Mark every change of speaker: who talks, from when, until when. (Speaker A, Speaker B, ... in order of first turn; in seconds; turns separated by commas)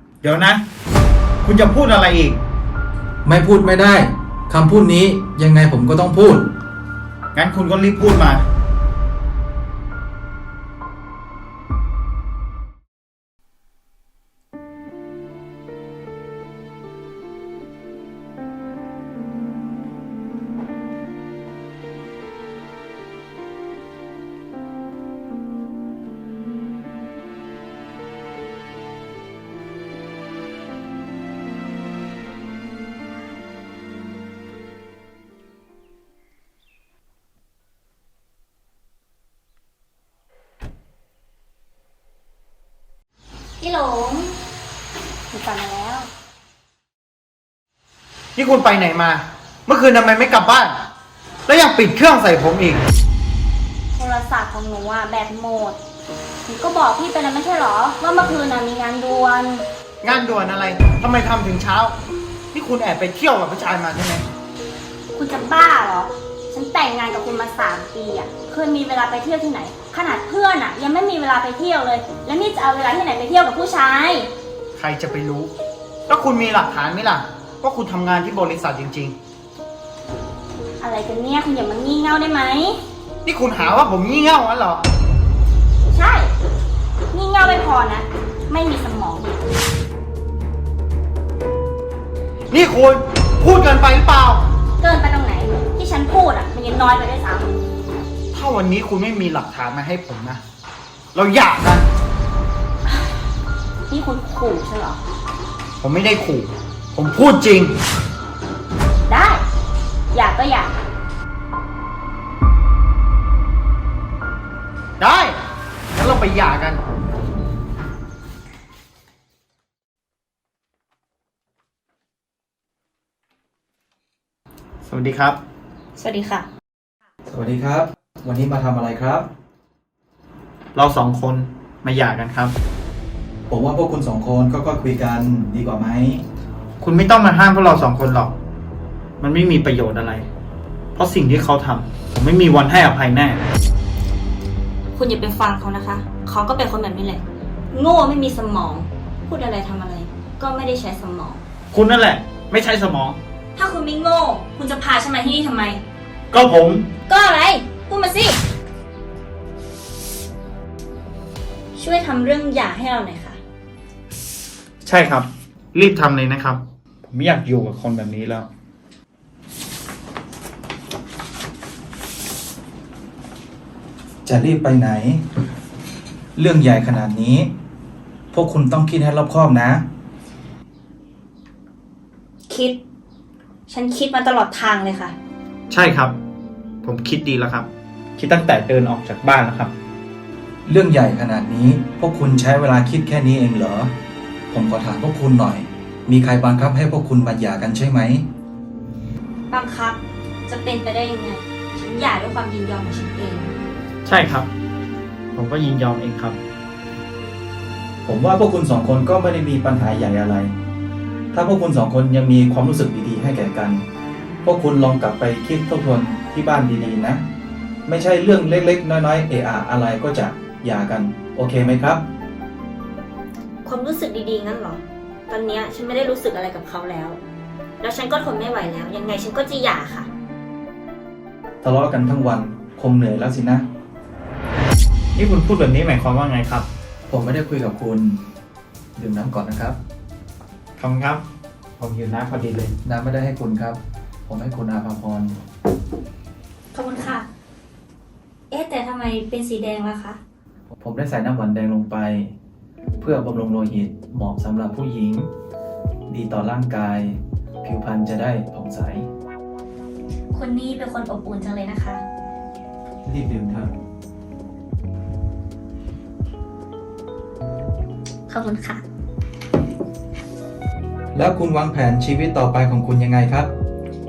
Speaker A: 0.2-0.6, Speaker A: 1.4-2.4, Speaker B: 3.2-6.5, Speaker A: 7.3-8.4, Speaker C: 43.6-44.4, Speaker C: 45.3-46.1, Speaker A: 48.4-50.8, Speaker A: 51.5-52.8, Speaker C: 54.0-55.8, Speaker C: 56.5-59.6, Speaker A: 60.0-62.0, Speaker A: 62.5-64.3, Speaker C: 65.1-74.3, Speaker A: 74.8-75.5, Speaker A: 76.1-79.2, Speaker C: 80.8-82.8, Speaker A: 83.2-84.9, Speaker C: 85.9-86.3, Speaker C: 87.1-89.4, Speaker A: 92.5-94.5, Speaker C: 94.8-97.5, Speaker A: 98.3-100.4, Speaker A: 101.1-101.9, Speaker C: 103.9-105.0, Speaker A: 105.8-107.8, Speaker C: 109.1-109.4, Speaker C: 110.1-110.7, Speaker A: 115.0-115.4, Speaker A: 115.9-116.8, Speaker A: 124.8-125.4, Speaker C: 126.0-126.5, Speaker B: 127.3-129.3, Speaker A: 130.8-132.5, Speaker B: 133.5-136.2, Speaker A: 136.8-138.3, Speaker A: 139.2-140.3, Speaker A: 140.9-143.4, Speaker C: 144.9-151.4, Speaker A: 151.7-153.2, Speaker C: 153.6-155.8, Speaker A: 156.3-156.9, Speaker C: 157.1-158.4, Speaker C: 161.8-163.4, Speaker A: 164.8-168.5, Speaker B: 174.3-175.2, Speaker B: 176.4-177.5, Speaker B: 178.3-179.8, Speaker C: 182.5-182.8, Speaker C: 183.7-185.1, Speaker A: 185.7-186.2, Speaker A: 186.8-189.7, Speaker B: 190.7-193.9, Speaker B: 194.5-198.2, Speaker C: 199.5-203.6, Speaker A: 204.1-204.5, Speaker A: 205.3-206.4, Speaker B: 208.0-210.6, Speaker B: 211.3-213.8, Speaker B: 214.4-217.2, Speaker B: 217.9-222.0, Speaker C: 223.7-227.2, Speaker C: 227.8-230.1, Speaker B: 231.6-233.7, Speaker A: 235.2-236.7, Speaker B: 237.1-238.2, Speaker B: 239.0-239.8, Speaker A: 240.8-241.2, Speaker A: 241.8-242.8, Speaker B: 242.8-245.4, Speaker C: 246.7-247.2, Speaker C: 248.5-250.2, Speaker B: 250.8-252.3, Speaker B: 253.0-255.3, Speaker B: 256.1-259.1, Speaker C: 260.3-262.0, Speaker B: 263.1-263.7, Speaker C: 268.3-268.8, Speaker B: 271.1-273.5